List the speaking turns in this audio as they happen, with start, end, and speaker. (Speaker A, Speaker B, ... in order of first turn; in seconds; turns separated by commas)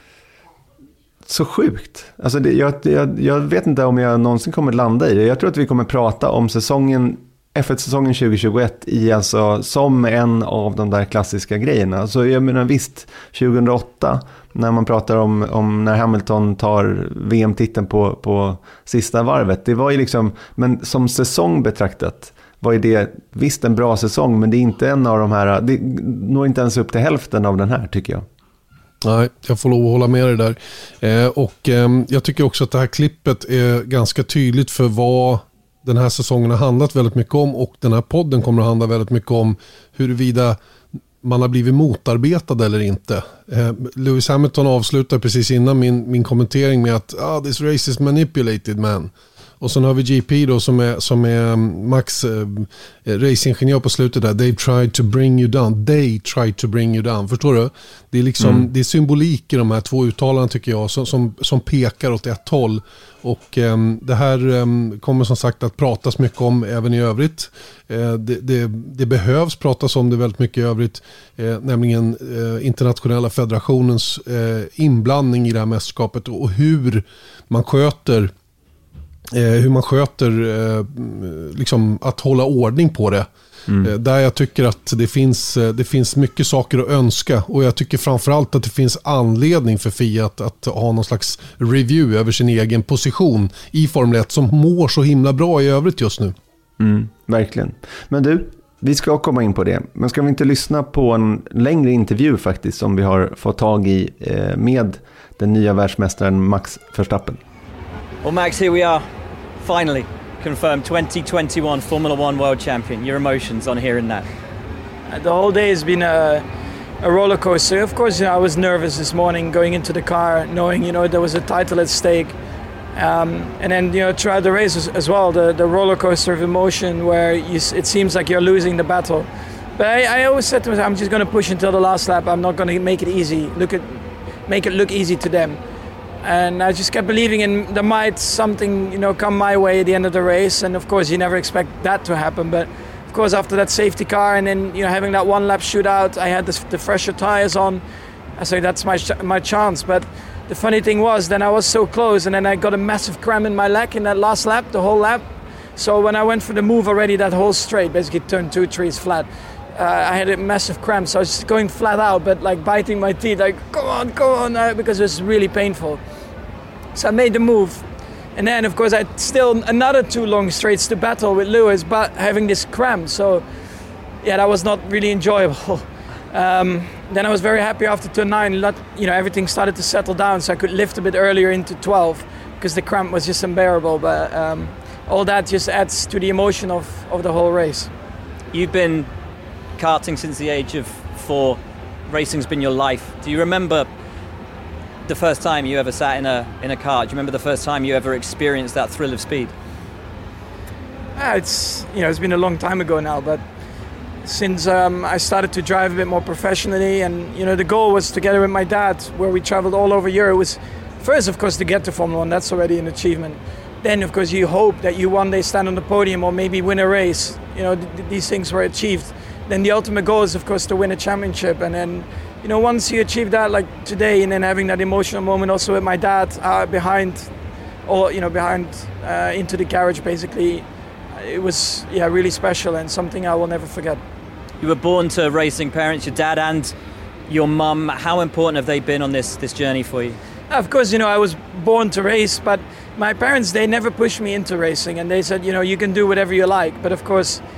Speaker A: 1.2-28.2, Speaker B: 29.0-40.6, Speaker B: 41.2-78.3, Speaker A: 58.4-58.7, Speaker B: 79.3-83.3, Speaker B: 83.8-96.3, Speaker A: 96.8-107.4, Speaker C: 108.2-109.0, Speaker C: 109.6-114.3, Speaker D: 115.1-116.4, Speaker D: 117.0-122.3, Speaker D: 122.9-135.6, Speaker D: 136.2-147.8, Speaker D: 148.4-155.2, Speaker D: 155.8-166.0, Speaker D: 166.9-167.8, Speaker D: 168.3-173.4, Speaker D: 174.2-187.9, Speaker C: 188.5-189.1, Speaker C: 189.8-193.9, Speaker C: 195.1-199.5, Speaker D: 201.2-203.4, Speaker D: 204.2-227.3, Speaker D: 227.8-234.0, Speaker C: 234.6-236.7, Speaker C: 237.3-240.2, Speaker D: 240.5-247.4